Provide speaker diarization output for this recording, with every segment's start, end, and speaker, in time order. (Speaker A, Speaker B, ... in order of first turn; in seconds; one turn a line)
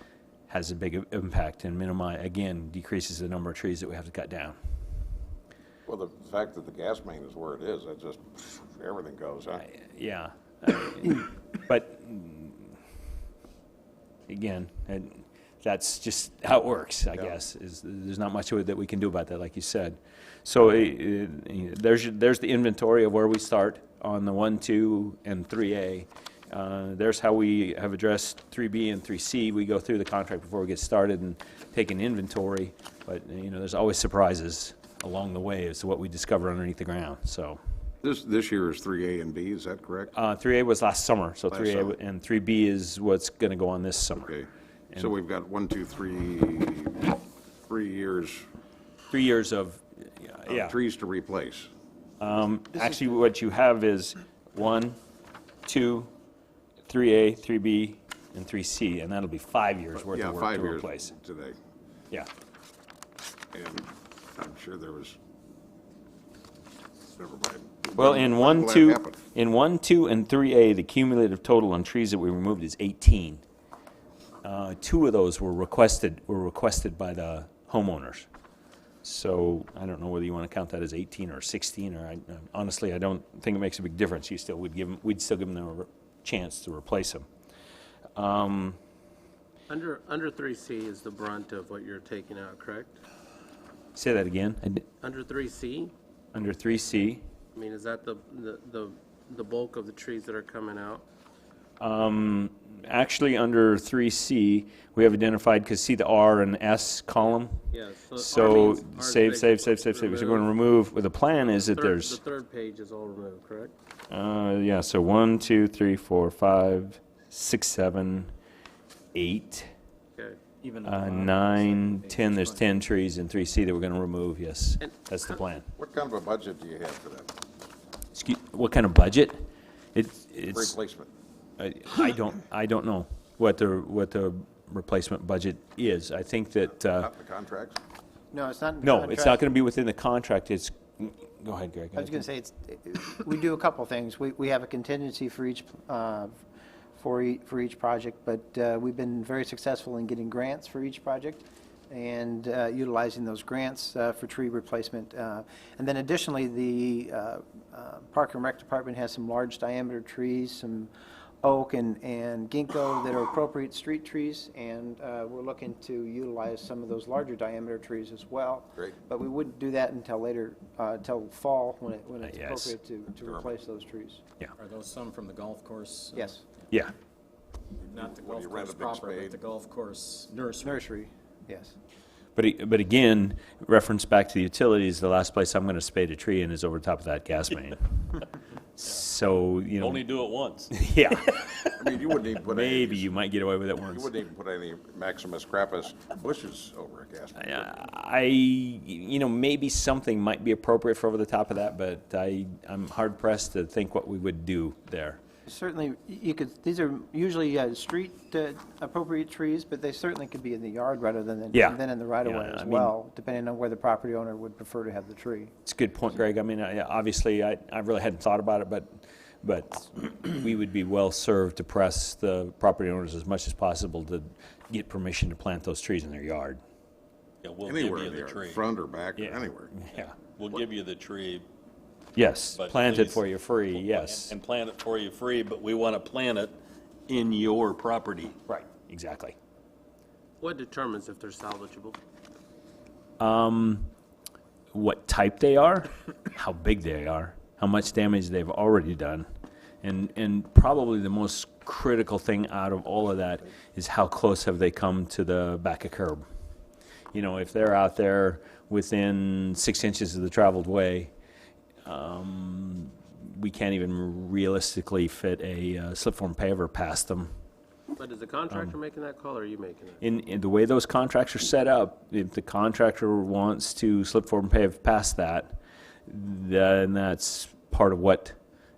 Speaker A: 0.5-4.6
Speaker B: 5.8-9.6
Speaker A: 9.6-12.7
Speaker A: 14.3-37.6
Speaker B: 38.0-40.1
Speaker A: 40.1-44.3
Speaker B: 41.5-42.0
Speaker B: 44.1-48.5
Speaker A: 49.1-50.8
Speaker B: 50.5-51.7
Speaker A: 52.2-55.0
Speaker A: 55.6-56.1
Speaker A: 56.9-61.1
Speaker B: 59.9-61.5
Speaker B: 63.5-65.2
Speaker B: 67.1-69.2
Speaker A: 68.0-73.4
Speaker A: 74.4-78.3
Speaker A: 79.0-87.3
Speaker A: 88.2-88.8
Speaker C: 89.7-93.0
Speaker A: 93.9-94.8
Speaker C: 95.0-95.9
Speaker A: 96.3-97.2
Speaker C: 97.5-101.0
Speaker A: 101.8-107.6
Speaker C: 107.7-110.5
Speaker A: 108.2-112.2
Speaker C: 111.5-113.7
Speaker A: 114.1-118.3
Speaker A: 119.1-119.7
Speaker D: 120.6-122.7
Speaker A: 120.8-125.7
Speaker B: 125.8-127.4
Speaker A: 128.1-130.7
Speaker B: 130.5-131.1
Speaker A: 131.6-137.1
Speaker B: 137.0-137.8
Speaker E: 138.3-139.4
Speaker A: 138.8-142.2
Speaker E: 141.9-146.3
Speaker E: 147.0-160.9
Speaker E: 161.4-174.2
Speaker A: 172.2-172.7
Speaker D: 174.6-176.4
Speaker E: 176.1-176.4
Speaker B: 177.8-179.4
Speaker D: 177.9-180.8
Speaker E: 180.6-181.8
Speaker A: 182.3-188.2
Speaker A: 188.8-190.0
Speaker F: 189.8-190.8
Speaker A: 190.7-191.8
Speaker B: 191.7-193.1
Speaker A: 192.4-194.1
Speaker B: 193.8-197.7
Speaker A: 197.4-205.2
Speaker E: 205.4-215.5
Speaker A: 211.5-212.9
Speaker A: 215.6-226.6
Speaker F: 227.4-228.6
Speaker B: 227.6-229.7
Speaker A: 229.2-230.1
Speaker F: 229.9-231.5
Speaker A: 232.1-234.3
Speaker F: 232.5-236.6
Speaker F: 237.1-238.4
Speaker A: 238.5-239.3
Speaker C: 240.4-242.0
Speaker A: 243.2-243.9
Speaker A: 244.7-249.3
Speaker A: 249.8-256.2
Speaker A: 257.1-261.1
Speaker A: 261.8-267.3
Speaker C: 268.0-270.0
Speaker A: 270.0-278.4